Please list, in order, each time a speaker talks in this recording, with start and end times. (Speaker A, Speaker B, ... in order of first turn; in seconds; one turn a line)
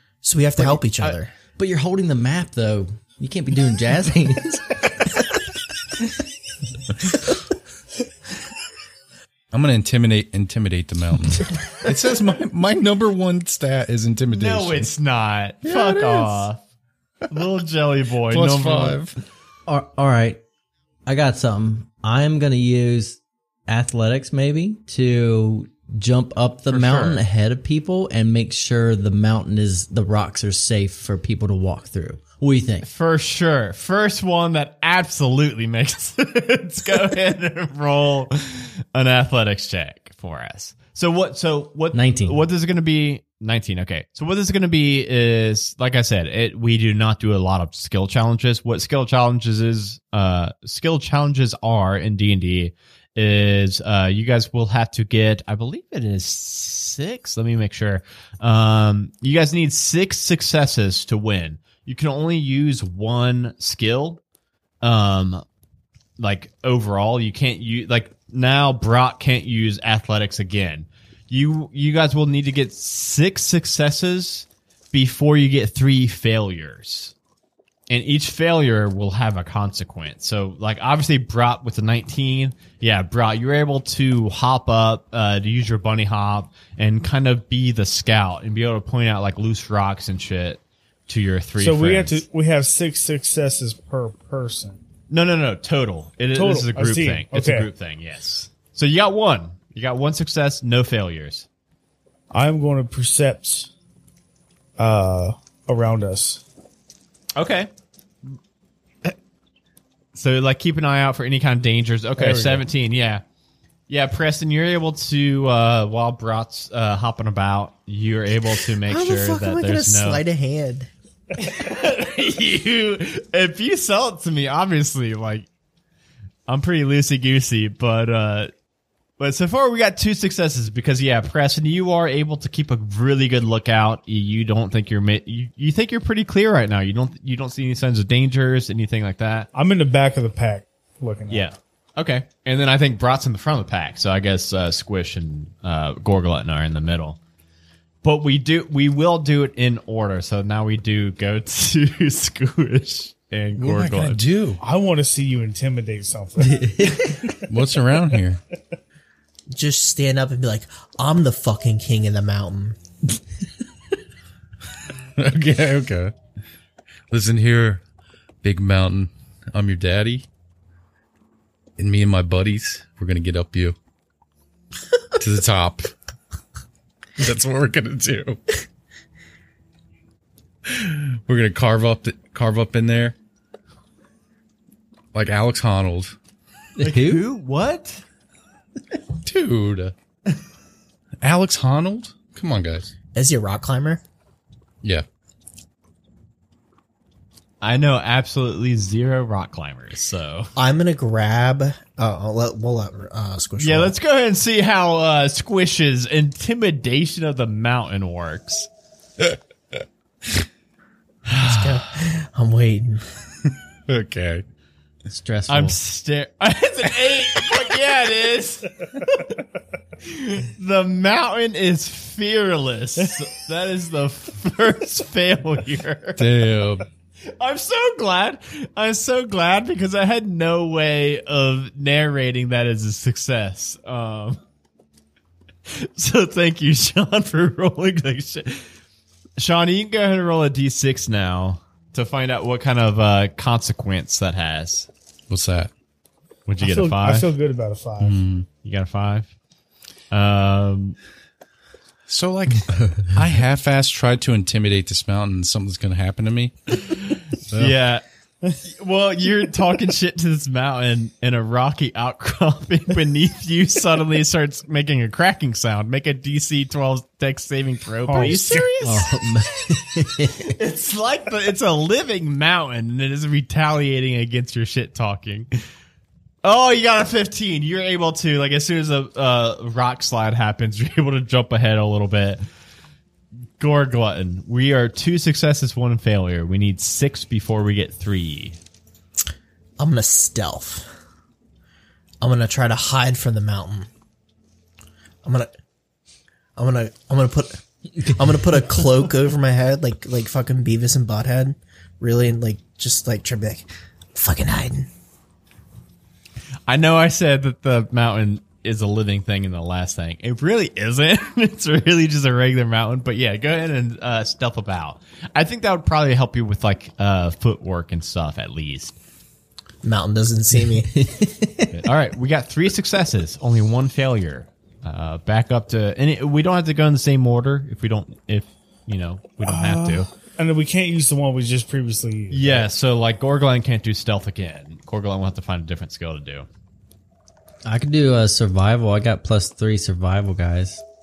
Speaker A: 0.2-1.3
Speaker B: 0.6-1.2
Speaker C: 1.6-5.2
Speaker D: 9.5-14.9
Speaker B: 14.3-16.6
Speaker D: 15.6-16.4
Speaker B: 17.3-19.0
Speaker D: 18.3-19.1
Speaker C: 19.7-20.4
Speaker C: 21.1-32.9
Speaker B: 26.7-27.2
Speaker B: 32.8-64.2
Speaker C: 41.9-42.4
Speaker B: 64.8-65.4
Speaker B: 66.2-77.1
Speaker B: 77.9-92.2
Speaker E: 91.6-94.8
Speaker B: 95.1-101.5
Speaker E: 96.3-97.7
Speaker E: 102.3-103.7
Speaker E: 104.8-106.4
Speaker B: 107.4-107.7
Speaker B: 110.2-113.2
Speaker E: 112.2-112.6
Speaker B: 113.9-120.2
Speaker A: 118.9-120.9
Speaker B: 121.4-125.5
Speaker B: 126.5-128.5
Speaker B: 129.2-139.5
Speaker E: 139.5-141.5
Speaker B: 141.3-147.2
Speaker B: 148.0-154.2
Speaker D: 153.6-154.6
Speaker E: 154.6-157.2
Speaker C: 156.4-157.3
Speaker D: 157.5-158.4
Speaker A: 159.5-162.8
Speaker D: 165.2-166.2
Speaker D: 167.1-167.8
Speaker D: 168.4-170.3
Speaker D: 171.8-173.8
Speaker D: 175.2-175.9
Speaker D: 177.2-178.6
Speaker D: 180.7-183.2
Speaker D: 185.1-186.2
Speaker C: 186.8-187.2
Speaker B: 186.8-188.0
Speaker D: 189.2-189.9
Speaker D: 191.2-192.9
Speaker A: 193.1-194.0
Speaker B: 197.6-200.5
Speaker A: 200.6-203.9
Speaker B: 203.6-208.7
Speaker A: 211.4-213.1
Speaker D: 213.9-214.4
Speaker C: 215.1-215.8
Speaker B: 215.5-219.4
Speaker B: 220.0-226.3
Speaker D: 226.2-226.9
Speaker B: 227.3-234.4
Speaker B: 235.7-238.7
Speaker B: 239.4-244.9
Speaker D: 245.3-245.7
Speaker B: 246.5-247.3
Speaker E: 246.6-248.2
Speaker D: 248.0-248.5
Speaker B: 248.6-249.3
Speaker B: 250.1-251.0
Speaker D: 252.1-257.0
Speaker B: 256.9-258.0
Speaker D: 257.5-257.7
Speaker B: 258.6-269.2
Speaker E: 268.1-268.8
Speaker C: 268.8-270.6
Speaker B: 270.4-275.5
Speaker B: 276.4-282.4
Speaker B: 283.6-288.6
Speaker A: 289.8-290.9
Speaker A: 292.2-293.9
Speaker A: 295.2-295.5
Speaker A: 296.6-304.9
Speaker B: 306.7-319.0
Speaker A: 319.8-321.0
Speaker C: 320.9-321.6
Speaker B: 321.7-330.1
Speaker E: 329.4-332.7
Speaker B: 332.3-336.5
Speaker C: 337.6-340.8